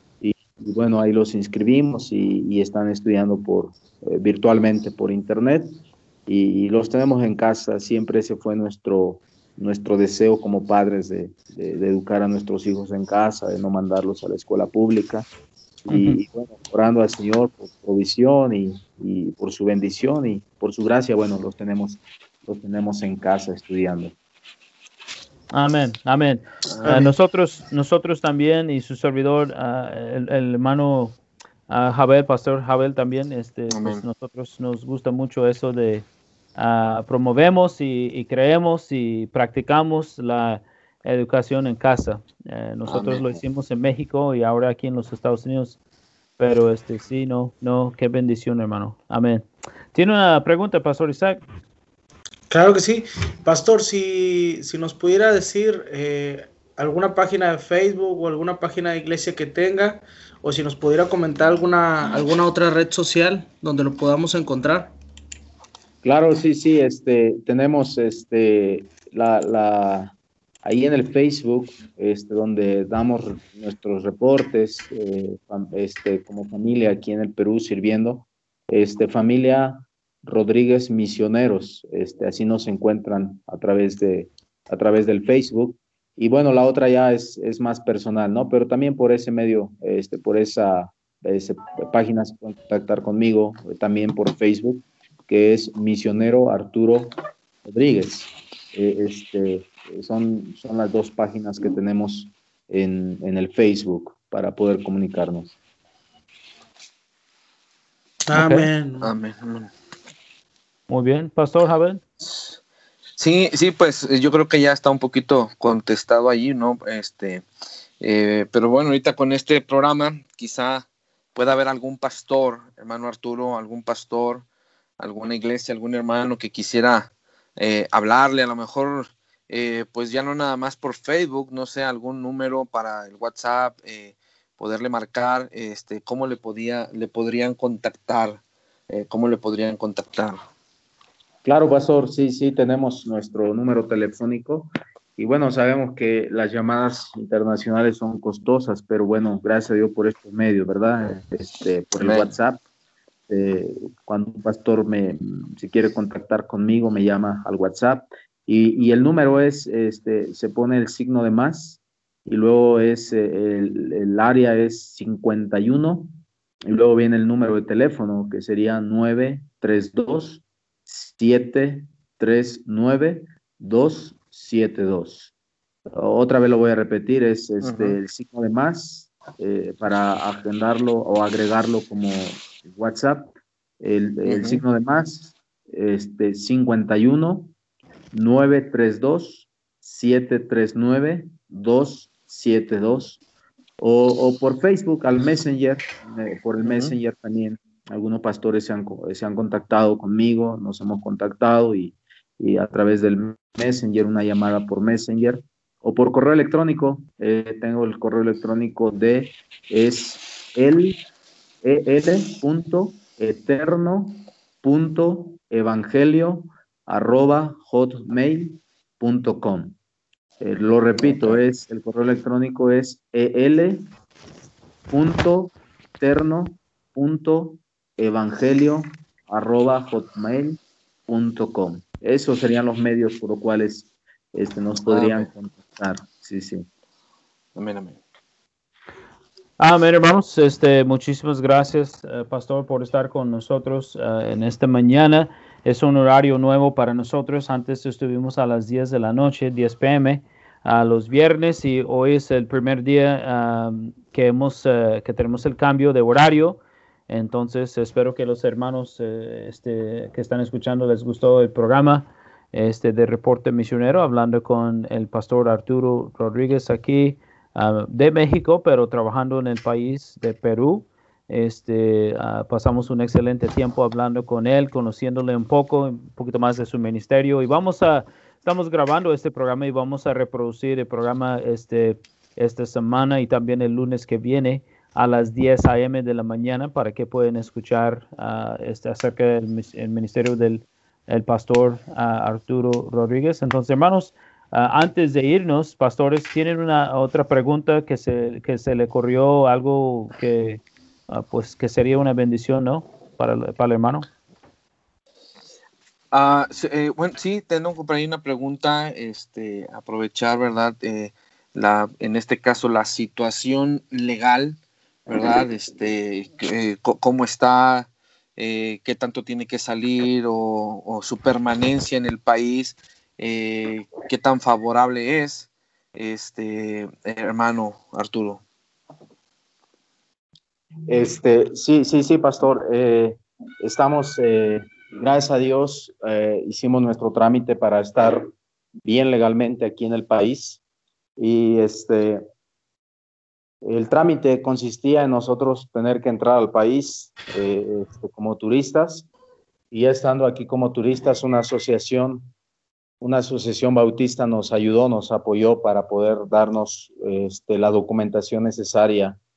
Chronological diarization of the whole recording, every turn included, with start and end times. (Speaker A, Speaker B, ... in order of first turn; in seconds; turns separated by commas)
Speaker A: 0.2-15.3, Speaker A: 15.9-24.2, Speaker B: 15.9-16.2, Speaker B: 25.5-31.2, Speaker C: 26.7-27.1, Speaker B: 31.7-45.8, Speaker C: 33.7-34.0, Speaker C: 42.9-43.4, Speaker B: 46.4-51.4, Speaker D: 52.5-65.0, Speaker A: 66.0-105.5, Speaker D: 108.3-109.1, Speaker B: 108.3-108.7, Speaker C: 109.0-109.7, Speaker B: 110.9-112.0, Speaker C: 112.2-112.5, Speaker C: 113.2-117.5, Speaker C: 118.0-124.5, Speaker C: 125.0-140.4, Speaker A: 141.4-152.6, Speaker C: 152.0-152.3, Speaker A: 153.3-166.1, Speaker A: 166.7-175.3, Speaker A: 175.9-187.5, Speaker C: 177.6-178.0, Speaker C: 184.3-184.6, Speaker A: 188.1-193.2, Speaker A: 193.8-211.0, Speaker C: 196.6-196.9, Speaker A: 211.6-219.8, Speaker A: 220.4-223.9, Speaker C: 221.0-221.4, Speaker A: 224.9-236.7, Speaker C: 234.9-235.3, Speaker C: 237.6-238.0, Speaker B: 239.6-304.1, Speaker C: 306.1-328.4, Speaker A: 330.9-338.3, Speaker A: 338.8-340.6, Speaker A: 341.2-342.2, Speaker A: 343.6-349.1, Speaker A: 349.7-352.3, Speaker A: 353.0-359.2